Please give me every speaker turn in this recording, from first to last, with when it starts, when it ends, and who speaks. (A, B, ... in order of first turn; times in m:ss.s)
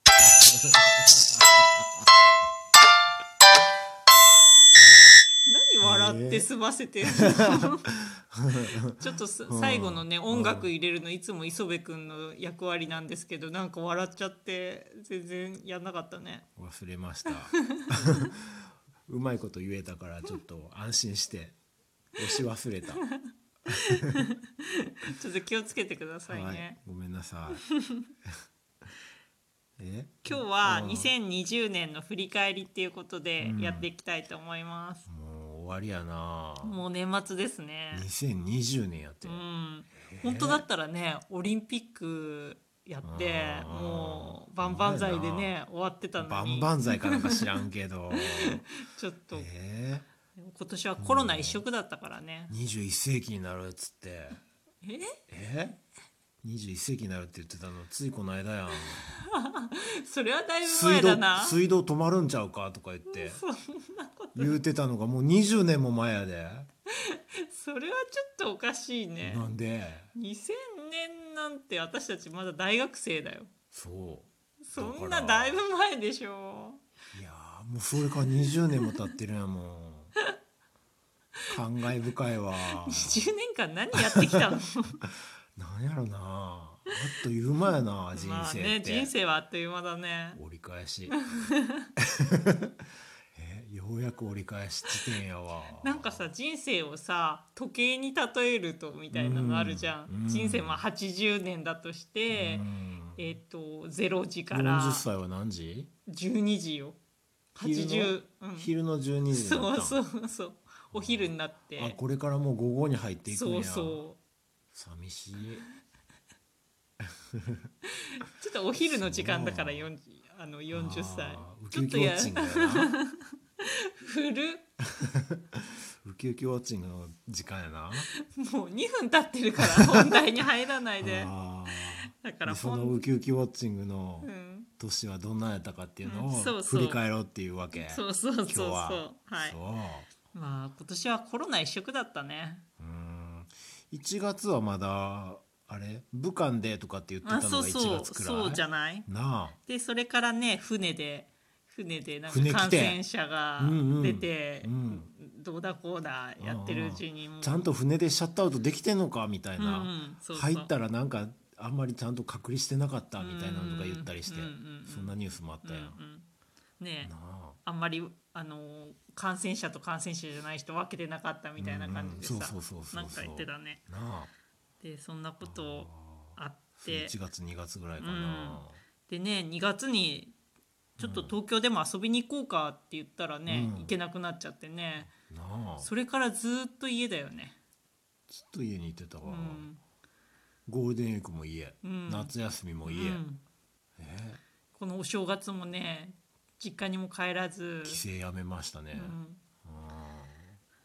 0:00.4-0:01.5 A
0:05.5-0:07.9 B
0:05.8-0:06.5 A
0:07.1-0:09.0 A
0:08.6-0:16.5 B
0:09.5-0:10.7 A
0:16.6-0:21.6 A
0:17.5-0:18.3 B
0:22.1-0:23.0 A
0:23.9-0:26.8 B
0:26.3-0:27.6 A
0:27.6-0:28.0 B
0:29.8-0:31.1 A
0:30.2-0:35.1 B
0:33.4-0:33.9 A
0:35.1-0:36.8 A
0:36.6-0:38.1 B
0:37.9-0:39.4 A
0:39.2-0:47.4 B
0:40.0-0:40.6 A
0:43.0-0:45.5 A
0:46.2-0:48.7 A
0:48.1-0:49.5 B
0:49.3-0:50.1 A
0:50.4-0:52.5 B
0:51.0-0:51.6 A
0:52.5-0:54.4 A
0:54.8-0:55.2 B
0:55.3-0:55.8 A
0:56.4-0:59.0 A
0:58.7-1:01.6 B
1:00.6-1:03.4 A
1:03.1-1:04.5 B
1:04.3-1:06.7 A
1:07.0-1:09.5 B
1:09.2-1:10.1 A
1:10.1-1:13.5 B
1:13.7-1:15.6 A
1:14.6-1:16.8 B
1:17.1-1:20.1 A
1:18.4-1:19.0 B
1:21.5-1:23.3 A
1:22.6-1:25.0 B
1:23.9-1:24.5 A
1:25.6-1:29.1 A
1:28.1-1:30.4 B
1:30.3-1:31.2 A
1:31.1-1:31.9 B
1:32.0-1:32.7 A
1:33.3-1:36.2 A
1:35.8-1:45.0 B
1:39.1-1:40.8 A
1:42.3-1:43.4 A
1:44.5-1:45.9 A
1:46.1-1:47.0 B
1:47.5-1:48.7 B
1:47.6-1:50.0 A
1:49.3-1:52.0 B
1:50.9-1:54.0 A
1:53.2-1:54.2 B
1:54.7-1:55.6 A
1:58.2-2:04.6 B
1:58.8-1:59.9 A
2:00.7-2:02.9 A
2:04.8-2:08.1 A
2:08.1-2:13.1 B
2:09.8-2:10.1 A
2:11.0-2:14.3 A
2:14.2-2:14.7 B
2:14.8-2:20.1 A
2:16.0-2:17.0 B
2:17.7-2:19.6 B
2:20.3-2:22.6 B
2:22.8-2:29.6 A
2:27.2-2:29.1 B
2:29.7-2:37.6 B
2:32.3-2:33.0 A
2:33.6-2:35.1 A
2:36.4-2:46.0 A
2:39.6-2:40.7 B
2:43.2-2:46.3 B
2:46.8-2:47.1 B
2:47.0-2:47.6 A
2:47.6-2:53.8 B
2:51.6-2:54.3 A
2:54.8-2:57.1 B
2:55.4-2:58.8 A
2:58.0-3:00.3 B
3:01.0-3:05.1 B
3:01.0-3:01.3 A
3:03.5-3:03.9 A
3:05.0-3:05.9 A
3:05.8-3:07.6 B
3:08.3-3:09.6 A
3:09.2-3:09.8 B
3:10.7-3:13.2 A
3:11.8-3:12.3 B
3:12.8-3:13.4 B
3:14.0-3:14.4 A
3:14.7-3:18.0 B
3:17.8-3:20.6 A
3:18.9-3:19.4 B